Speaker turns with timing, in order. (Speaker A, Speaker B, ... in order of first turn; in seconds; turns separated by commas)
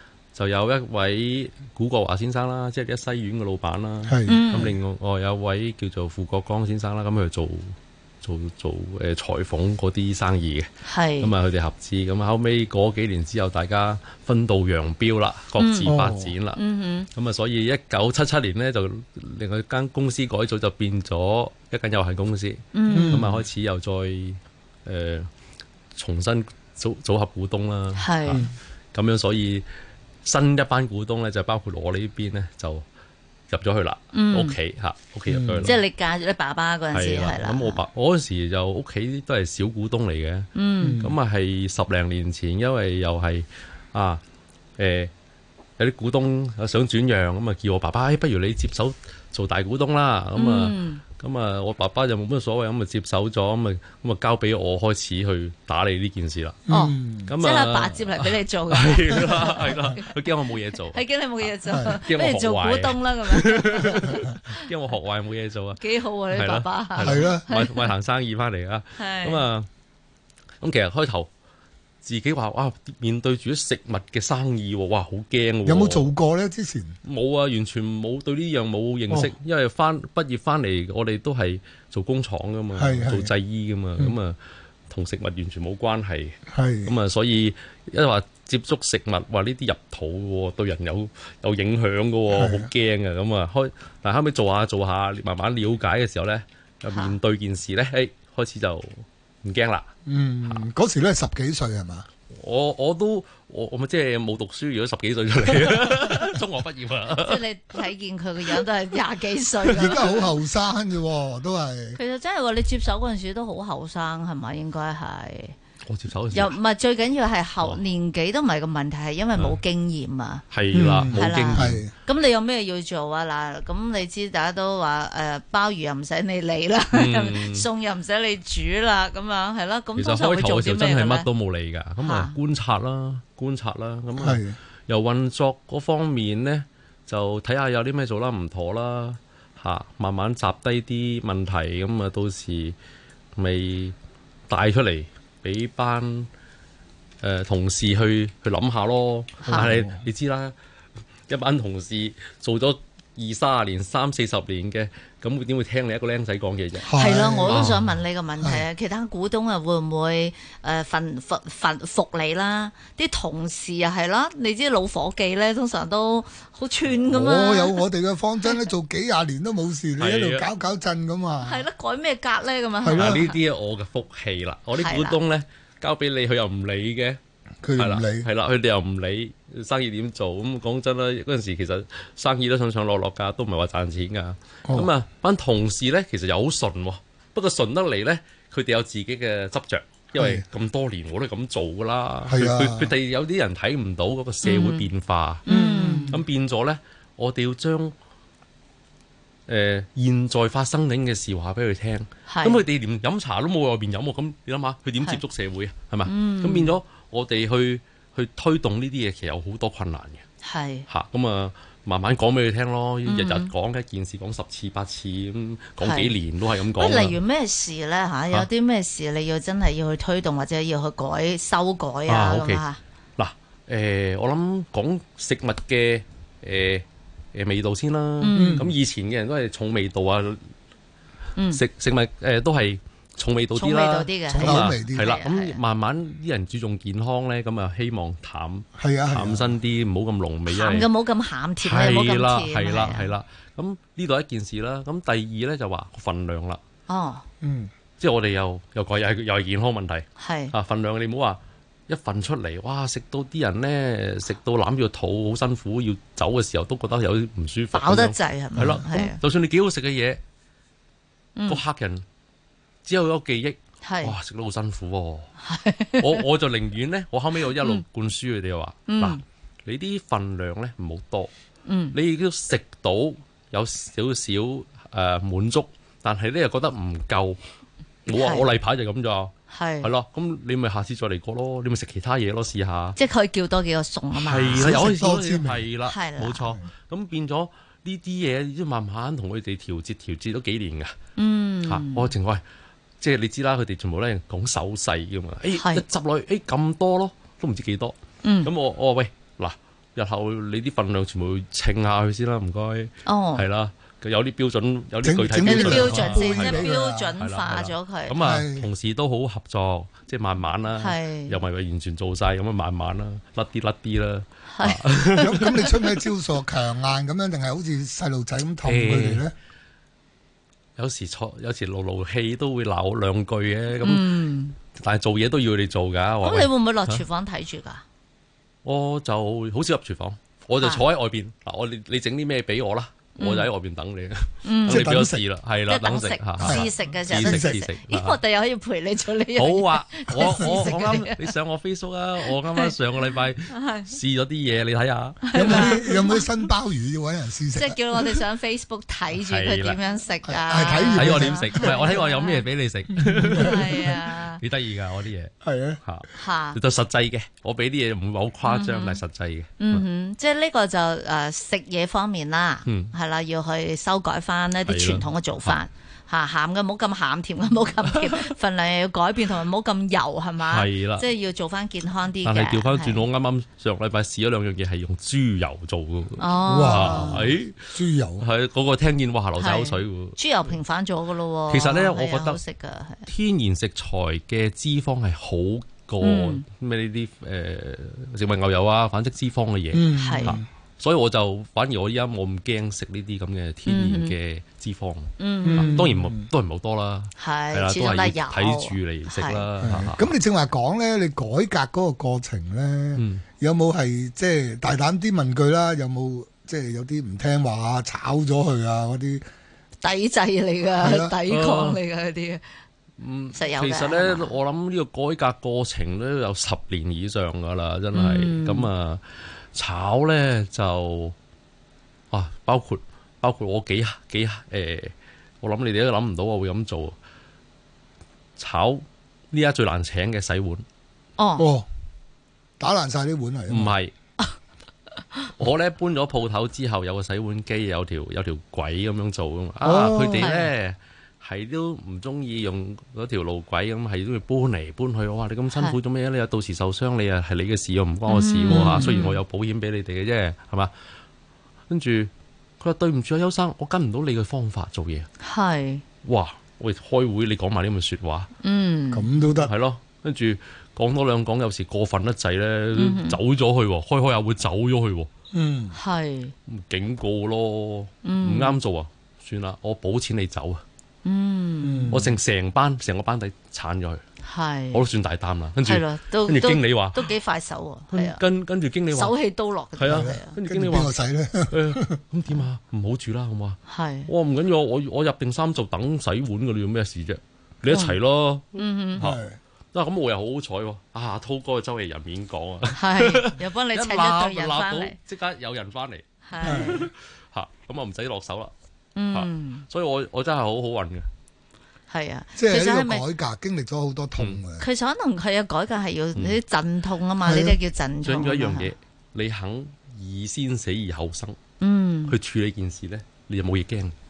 Speaker A: 0.3-16.6, Speaker B: 4.0-4.4, Speaker C: 4.2-4.7, Speaker C: 10.8-11.3, Speaker C: 15.6-15.9, Speaker B: 15.8-16.3, Speaker C: 16.5-17.1, Speaker A: 17.1-25.3, Speaker C: 22.7-23.2, Speaker B: 22.9-23.4, Speaker A: 25.9-29.6, Speaker C: 28.0-28.5, Speaker A: 30.2-32.8, Speaker A: 33.5-35.8, Speaker C: 34.1-34.6, Speaker B: 35.3-35.7, Speaker C: 35.6-37.8, Speaker A: 36.9-44.2, Speaker C: 40.5-41.1, Speaker B: 40.8-41.1, Speaker A: 44.8-45.1, Speaker A: 45.8-56.7, Speaker C: 50.3-51.0, Speaker B: 56.7-57.3, Speaker C: 56.7-60.2, Speaker A: 57.2-69.7, Speaker C: 60.8-64.6, Speaker B: 61.7-62.0, Speaker C: 65.8-67.9, Speaker B: 67.0-67.5, Speaker C: 69.0-69.5, Speaker A: 70.6-71.3, Speaker A: 72.0-76.1, Speaker B: 75.6-77.0, Speaker A: 77.0-84.4, Speaker B: 79.1-79.3, Speaker B: 82.7-83.3, Speaker A: 84.9-99.9, Speaker B: 86.5-86.9, Speaker B: 92.3-92.7, Speaker C: 96.9-97.1, Speaker B: 100.0-102.1, Speaker A: 102.3-107.4, Speaker C: 107.2-110.3, Speaker B: 109.7-112.0, Speaker C: 111.9-115.5, Speaker A: 115.8-116.5, Speaker C: 116.3-120.4, Speaker A: 120.5-121.8, Speaker B: 120.7-121.9, Speaker C: 121.1-131.3, Speaker A: 126.9-127.7, Speaker A: 130.0-142.8, Speaker C: 132.0-132.3, Speaker B: 134.1-134.6, Speaker A: 143.3-143.9, Speaker A: 144.5-146.3, Speaker A: 147.2-150.5, Speaker B: 149.4-150.0, Speaker A: 151.3-156.9, Speaker B: 156.8-157.8, Speaker C: 156.9-167.8, Speaker A: 157.5-157.9, Speaker B: 158.4-158.6, Speaker B: 167.0-171.7, Speaker A: 170.0-170.5, Speaker C: 171.4-173.4, Speaker B: 172.8-173.2, Speaker A: 172.9-177.2, Speaker C: 174.8-175.2, Speaker B: 177.6-178.3, Speaker A: 177.8-195.5, Speaker B: 184.6-184.9, Speaker B: 190.1-190.4, Speaker B: 192.3-192.9, Speaker C: 194.4-194.9, Speaker C: 195.4-196.2, Speaker B: 195.5-196.2, Speaker A: 196.1-197.9, Speaker A: 199.5-210.2, Speaker C: 202.3-202.6, Speaker C: 206.0-206.7, Speaker C: 210.4-210.8, Speaker A: 210.9-217.2, Speaker C: 213.0-213.5, Speaker C: 215.8-216.1, Speaker C: 216.7-222.8, Speaker A: 222.1-222.7, Speaker A: 223.2-230.5, Speaker C: 228.2-228.7, Speaker B: 228.3-228.7, Speaker C: 231.3-231.6, Speaker A: 231.5-240.9, Speaker C: 233.5-235.6, Speaker B: 234.3-235.1, Speaker B: 238.8-239.5, Speaker C: 240.5-243.1, Speaker A: 241.6-246.6, Speaker C: 246.9-247.2, Speaker B: 247.4-247.7, Speaker A: 248.0-260.2, Speaker C: 250.2-250.5, Speaker C: 257.7-259.2, Speaker B: 258.6-258.8, Speaker C: 261.4-261.6, Speaker A: 261.5-262.0, Speaker A: 262.8-265.3, Speaker C: 263.8-264.1, Speaker C: 265.4-266.2, Speaker A: 266.0-271.3, Speaker C: 267.6-267.8, Speaker C: 268.9-269.2, Speaker C: 271.6-272.0, Speaker A: 271.9-277.4, Speaker A: 278.1-283.0, Speaker C: 278.1-278.5, Speaker C: 279.5-279.9, Speaker C: 282.9-284.9, Speaker A: 284.1-290.9, Speaker B: 284.5-285.7, Speaker C: 285.9-286.6, Speaker C: 291.1-292.1, Speaker A: 291.6-292.4, Speaker A: 293.0-315.9, Speaker C: 295.5-295.8, Speaker C: 298.2-298.5, Speaker C: 303.0-303.4, Speaker B: 305.0-307.1, Speaker C: 305.4-308.2, Speaker B: 308.2-308.7, Speaker C: 310.8-311.4, Speaker C: 314.5-315.6, Speaker B: 315.2-319.3, Speaker A: 318.6-319.3, Speaker A: 320.8-327.0, Speaker C: 323.8-324.6, Speaker C: 326.2-327.8, Speaker A: 328.6-338.2, Speaker C: 330.6-330.8, Speaker C: 333.2-333.5, Speaker C: 334.4-334.9, Speaker B: 334.7-335.3, Speaker C: 335.7-341.3, Speaker B: 336.4-337.6, Speaker A: 339.3-345.8, Speaker B: 340.2-340.6, Speaker C: 342.2-342.8, Speaker C: 343.5-343.9, Speaker C: 345.2-346.3, Speaker B: 345.3-347.8, Speaker C: 347.5-352.4, Speaker A: 349.1-349.8, Speaker B: 350.2-352.0, Speaker A: 350.7-355.3, Speaker B: 352.9-353.7, Speaker C: 353.3-354.4, Speaker B: 355.4-355.8, Speaker A: 355.8-359.8, Speaker C: 356.1-356.6, Speaker C: 358.4-359.0, Speaker C: 359.6-373.0, Speaker A: 362.6-362.9, Speaker A: 364.6-365.6, Speaker A: 370.4-371.1, Speaker A: 372.2-380.6, Speaker C: 376.2-377.3, Speaker B: 376.5-378.2, Speaker C: 379.4-383.1, Speaker A: 381.5-382.4, Speaker A: 383.1-400.1, Speaker C: 386.0-386.4, Speaker B: 389.7-390.4, Speaker C: 390.0-390.4, Speaker C: 393.6-394.1, Speaker C: 395.2-395.7, Speaker B: 395.4-396.3, Speaker C: 397.2-399.4, Speaker B: 399.6-409.2, Speaker A: 402.9-403.2, Speaker C: 409.8-412.4, Speaker B: 410.8-411.1, Speaker A: 411.3-411.8, Speaker A: 413.0-421.1, Speaker C: 413.3-414.3, Speaker C: 417.9-418.7, Speaker A: 422.1-426.9, Speaker A: 428.4-430.6, Speaker C: 431.2-431.5, Speaker B: 431.4-431.7, Speaker B: 432.6-433.8, Speaker A: 433.5-433.9, Speaker A: 435.4-450.7, Speaker B: 439.6-440.3, Speaker C: 440.2-440.5, Speaker C: 448.1-449.2, Speaker B: 448.5-448.9, Speaker A: 451.7-455.1, Speaker C: 455.2-455.8, Speaker A: 456.0-458.3, Speaker C: 458.4-459.1, Speaker B: 458.9-459.5, Speaker A: 459.4-465.1, Speaker C: 462.7-463.2, Speaker B: 465.3-465.8, Speaker C: 465.7-466.3, Speaker A: 466.5-470.6, Speaker C: 468.0-468.6, Speaker C: 471.0-471.9, Speaker B: 471.6-472.1, Speaker A: 471.9-474.0, Speaker C: 474.2-474.8, Speaker A: 474.7-477.1, Speaker C: 475.6-478.2, Speaker A: 477.9-479.1, Speaker C: 478.9-480.4, Speaker A: 479.8-480.9, Speaker B: 479.8-482.0, Speaker A: 481.5-489.2, Speaker C: 483.7-484.1, Speaker C: 487.7-487.9, Speaker C: 488.6-489.1, Speaker B: 489.0-489.4, Speaker A: 489.7-498.5, Speaker C: 492.7-495.0, Speaker C: 496.3-496.9, Speaker B: 496.4-496.9, Speaker C: 498.9-499.6, Speaker A: 499.1-501.1, Speaker C: 501.9-503.1, Speaker B: 502.4-504.6, Speaker C: 504.6-508.7, Speaker B: 507.2-507.6, Speaker A: 508.0-511.4, Speaker C: 511.6-512.1, Speaker A: 512.1-513.9